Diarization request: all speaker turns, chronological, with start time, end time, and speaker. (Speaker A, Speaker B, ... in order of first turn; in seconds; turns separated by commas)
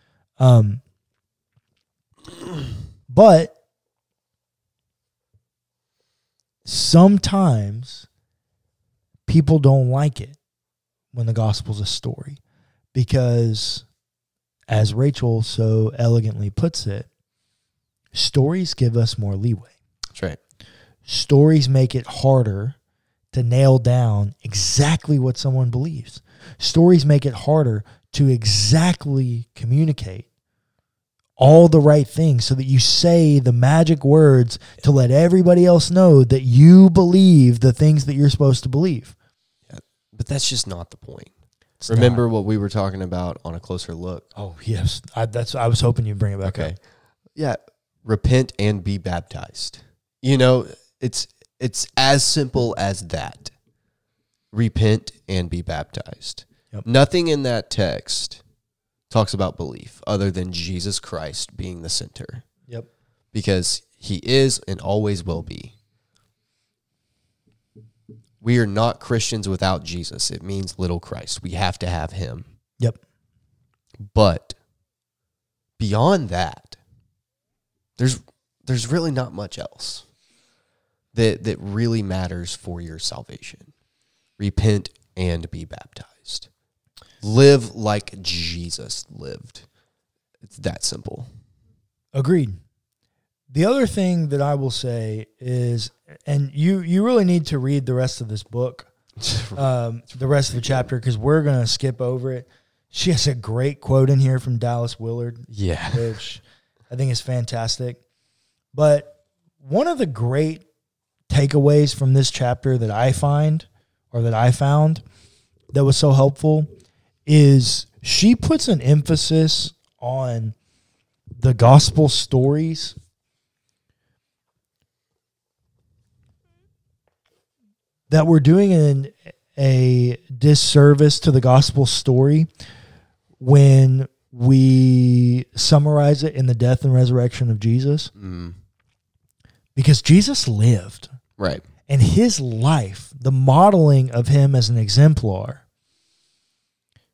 Speaker A: 0.4-0.8, Speaker A: 3.1-3.5, Speaker A: 6.7-8.1, Speaker A: 9.3-10.4, Speaker A: 11.1-12.4, Speaker A: 12.9-13.8, Speaker A: 14.7-17.1, Speaker A: 18.1-19.7, Speaker A: 21.1-22.8, Speaker A: 23.3-30.3, Speaker A: 31.4-39.1, Speaker B: 39.7-41.3, Speaker A: 41.8-42.2, Speaker B: 41.9-44.3, Speaker A: 44.4-46.8, Speaker B: 46.4-46.8, Speaker B: 47.4-53.5, Speaker B: 54.5-58.4, Speaker B: 59.1-62.5, Speaker B: 63.3-65.8, Speaker B: 68.4-72.5, Speaker B: 74.0-74.6, Speaker B: 75.8-76.8, Speaker B: 78.0-80.1, Speaker B: 81.1-83.7, Speaker B: 84.4-86.5, Speaker B: 87.2-89.7, Speaker B: 90.4-91.3, Speaker A: 92.2-92.6, Speaker A: 93.5-98.9, Speaker B: 99.2-99.6, Speaker A: 99.5-108.0, Speaker B: 105.5-106.2, Speaker A: 108.7-110.6, Speaker A: 111.3-115.0, Speaker A: 115.7-116.7, Speaker A: 117.3-120.5, Speaker A: 121.4-123.0, Speaker A: 128.1-132.5, Speaker A: 133.4-138.1, Speaker B: 138.2-138.6, Speaker A: 139.8-141.2, Speaker B: 141.4-141.7, Speaker A: 141.9-145.6